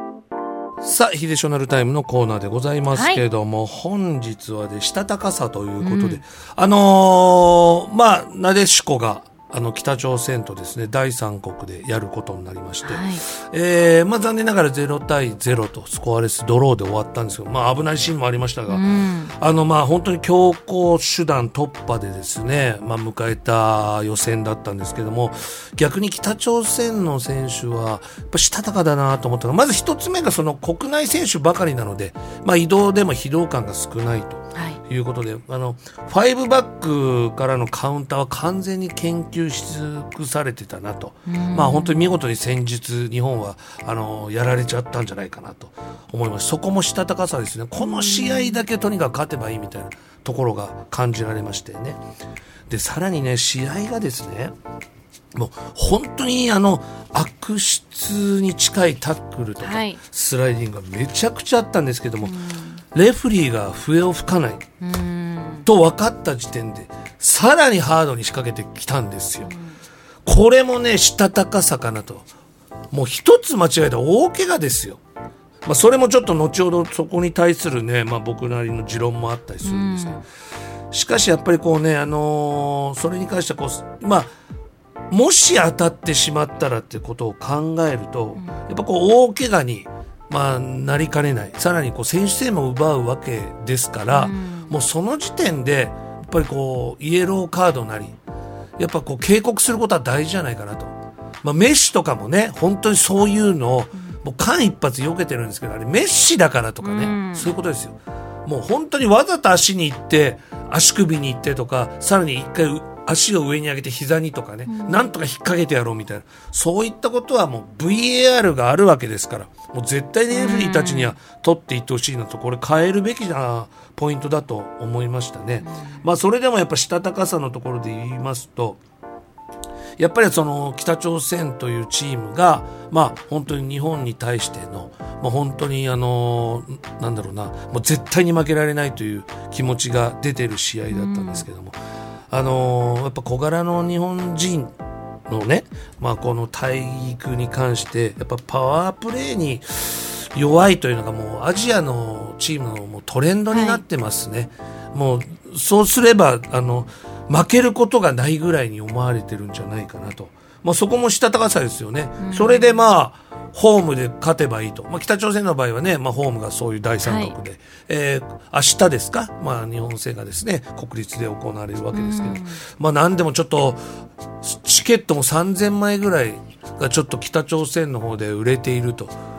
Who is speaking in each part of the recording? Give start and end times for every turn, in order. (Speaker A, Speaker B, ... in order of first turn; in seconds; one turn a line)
Speaker A: 0.8-18.8
Speaker B: 2.9-3.2
Speaker B: 5.8-6.2
Speaker B: 12.8-13.2
Speaker B: 18.7-19.3
Speaker A: 19.4-52.0
Speaker B: 41.2-42.0
Speaker B: 47.8-48.6
Speaker A: 52.7-54.5
Speaker A: 55.3-64.6
Speaker B: 59.6-60.0
Speaker B: 62.2-62.8
Speaker B: 64.8-65.7
Speaker A: 65.6-69.5
Speaker B: 69.4-69.7
Speaker A: 70.2-72.2
Speaker A: 72.9-75.0
Speaker A: 75.7-80.2
Speaker B: 79.6-80.2
Speaker A: 80.9-84.3
Speaker A: 85.1-98.2
Speaker B: 94.1-94.7
Speaker A: 98.8-128.8
Speaker B: 106.8-107.5
Speaker B: 114.7-115.1
Speaker B: 120.3-121.1
Speaker A: 130.0-141.8
Speaker B: 140.9-141.5
Speaker A: 142.3-144.7
Speaker A: 145.3-173.8
Speaker B: 153.5-153.8
Speaker B: 162.2-162.7
Speaker B: 167.0-167.3
Speaker B: 171.9-172.6
Speaker A: 174.4-179.1